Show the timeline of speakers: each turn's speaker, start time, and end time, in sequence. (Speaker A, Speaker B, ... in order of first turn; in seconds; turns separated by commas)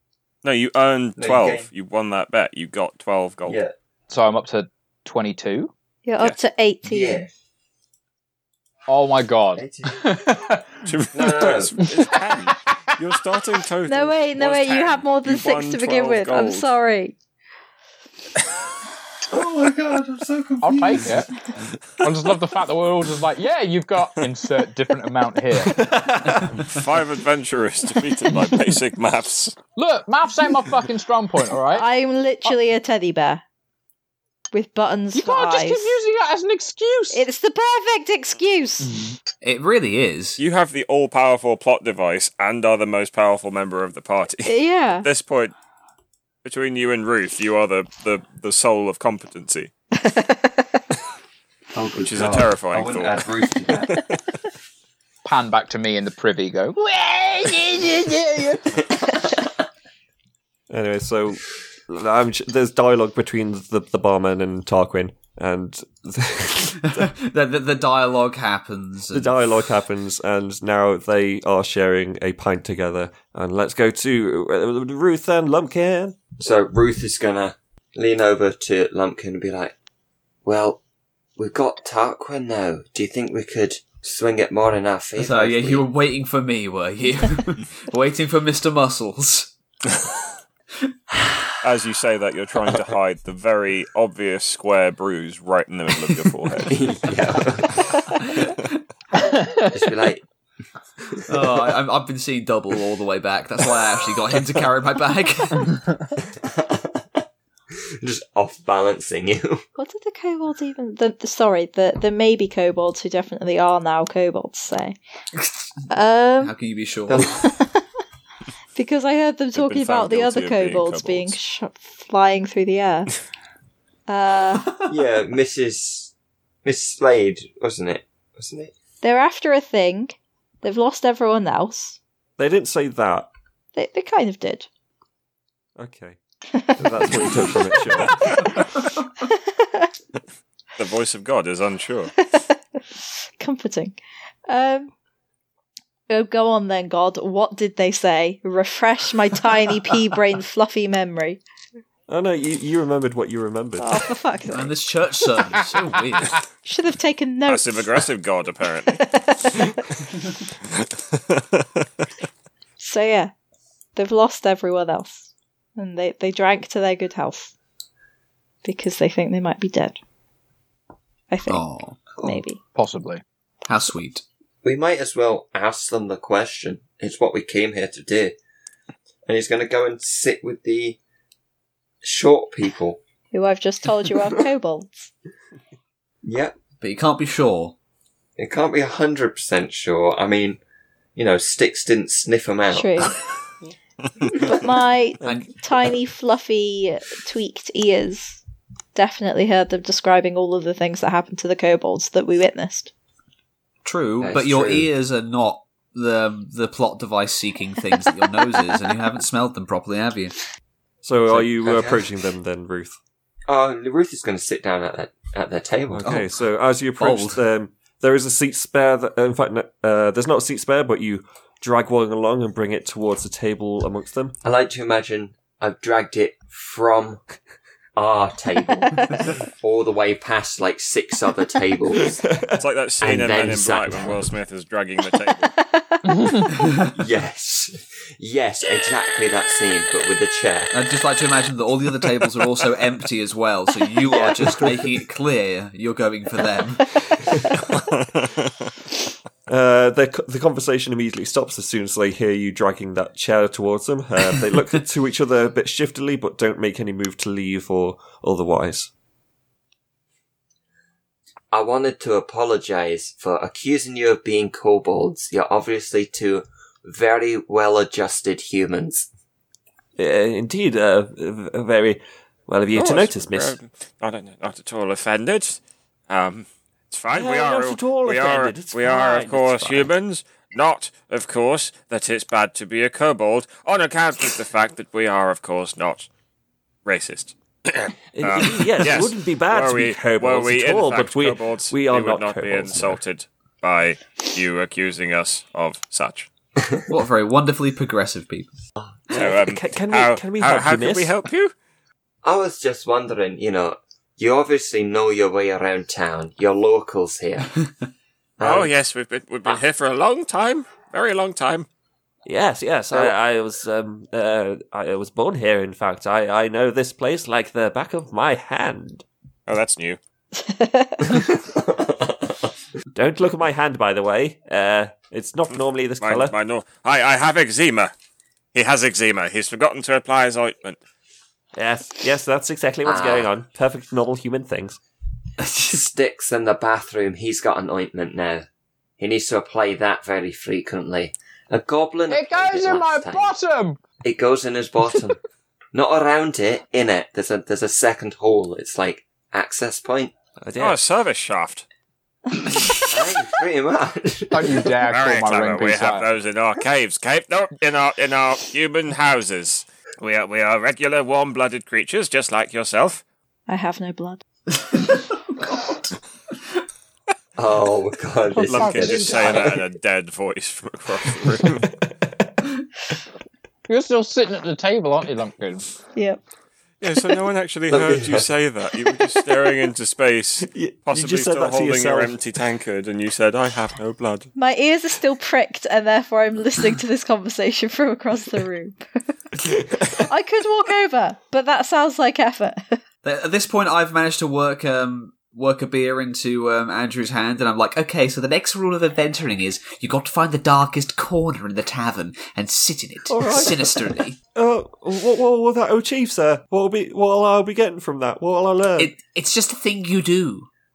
Speaker A: 0.4-3.6, Speaker B: 1.2-1.7, Speaker B: 3.5-3.7, Speaker C: 4.1-5.7, Speaker D: 6.1-7.3, Speaker B: 6.9-7.3, Speaker C: 8.9-10.7, Speaker B: 9.6-10.1, Speaker A: 10.9-16.7, Speaker B: 11.1-11.7, Speaker C: 12.0-12.6, Speaker D: 13.9-17.1, Speaker B: 19.3-21.2, Speaker C: 20.6-21.3, Speaker C: 22.0-25.9, Speaker E: 25.6-26.6, Speaker A: 26.6-29.6, Speaker C: 29.8-31.9, Speaker D: 31.7-33.4, Speaker D: 34.5-36.0, Speaker C: 35.1-37.2, Speaker D: 37.1-39.0, Speaker C: 38.8-39.2, Speaker F: 39.4-40.4, Speaker A: 40.4-45.5, Speaker D: 44.5-45.1, Speaker A: 46.4-49.7, Speaker D: 50.0-50.5, Speaker B: 51.7-54.0, Speaker A: 52.0-53.3, Speaker A: 53.9-54.1, Speaker C: 55.2-58.9, Speaker E: 60.7-67.1, Speaker F: 66.8-69.4, Speaker E: 69.1-76.2, Speaker B: 76.4-79.7, Speaker B: 80.5-80.8, Speaker B: 81.4-85.9, Speaker F: 85.2-89.5, Speaker A: 91.6-96.7, Speaker B: 96.7-98.0, Speaker F: 98.2-98.5, Speaker C: 99.4-99.7, Speaker B: 99.7-100.2, Speaker F: 101.3-105.8, Speaker B: 106.3-107.0, Speaker B: 108.0-109.6, Speaker D: 109.8-115.0, Speaker D: 115.9-116.5, Speaker F: 116.4-117.4, Speaker B: 117.1-117.4, Speaker D: 118.8-123.1, Speaker A: 119.5-121.4, Speaker D: 124.1-124.7, Speaker B: 124.9-126.1, Speaker B: 126.6-128.7, Speaker D: 129.0-132.0, Speaker E: 132.4-133.3, Speaker D: 133.8-134.7, Speaker E: 135.8-136.2, Speaker E: 136.8-138.4, Speaker D: 139.3-139.9, Speaker A: 140.8-142.1, Speaker D: 142.2-144.0, Speaker D: 144.5-144.9, Speaker D: 146.1-151.4, Speaker E: 152.1-154.0, Speaker D: 153.8-154.8, Speaker F: 154.5-156.4, Speaker D: 156.7-158.0, Speaker A: 157.5-159.1, Speaker D: 158.9-160.0, Speaker A: 160.8-161.6, Speaker D: 162.8-163.3, Speaker D: 163.9-167.5, Speaker D: 168.6-170.0, Speaker D: 171.3-172.6, Speaker F: 171.5-172.0, Speaker C: 172.8-173.2, Speaker F: 173.7-174.2, Speaker B: 174.6-178.4, Speaker B: 179.3-181.0, Speaker B: 182.0-183.0, Speaker D: 183.3-185.1, Speaker B: 186.2-186.6, Speaker F: 186.8-187.8, Speaker B: 188.4-190.6, Speaker B: 191.2-193.2, Speaker D: 192.7-193.1, Speaker D: 194.3-198.4, Speaker F: 195.2-195.5, Speaker D: 198.9-202.9, Speaker F: 203.8-210.4, Speaker B: 204.2-204.9, Speaker E: 211.0-213.0, Speaker F: 211.3-212.0, Speaker B: 213.5-216.2, Speaker E: 215.9-224.4, Speaker F: 217.0-217.4, Speaker B: 224.4-227.2, Speaker B: 228.0-232.2, Speaker E: 232.2-232.6, Speaker A: 232.6-235.5, Speaker B: 233.0-234.3, Speaker D: 235.6-236.4, Speaker C: 236.1-236.4, Speaker B: 236.9-240.7, Speaker F: 240.7-246.9, Speaker B: 244.0-244.8, Speaker A: 247.8-248.5, Speaker E: 249.5-258.9, Speaker B: 261.5-269.1, Speaker E: 270.0-273.6, Speaker A: 272.8-286.1, Speaker E: 277.1-279.9, Speaker A: 286.9-296.3, Speaker E: 288.1-293.0, Speaker F: 296.9-298.6, Speaker B: 298.8-299.1, Speaker E: 299.1-301.2, Speaker A: 299.1-301.5, Speaker B: 302.2-307.7, Speaker B: 308.4-308.7, Speaker A: 308.4-311.7, Speaker E: 312.3-319.1, Speaker A: 319.5-320.0, Speaker D: 320.4-321.2, Speaker B: 321.1-322.5, Speaker E: 322.9-326.3, Speaker A: 326.0-327.9, Speaker A: 328.5-330.8, Speaker E: 331.6-334.8, Speaker B: 332.9-333.3, Speaker B: 335.6-338.5, Speaker B: 339.0-343.4, Speaker C: 342.1-343.8, Speaker B: 344.0-345.2, Speaker B: 345.7-350.1, Speaker E: 350.4-350.8, Speaker A: 350.6-351.6, Speaker B: 352.9-354.7, Speaker C: 354.3-356.1, Speaker A: 354.9-363.0, Speaker D: 363.5-364.2, Speaker B: 367.4-369.6, Speaker C: 368.4-369.6, Speaker A: 368.4-371.7, Speaker C: 373.7-375.7, Speaker D: 375.9-376.2, Speaker A: 376.8-384.3, Speaker B: 377.7-378.3, Speaker E: 380.4-382.2, Speaker D: 384.4-389.1, Speaker E: 389.8-390.0, Speaker D: 389.9-392.8, Speaker F: 393.0-404.2, Speaker E: 403.1-408.9, Speaker F: 408.8-410.5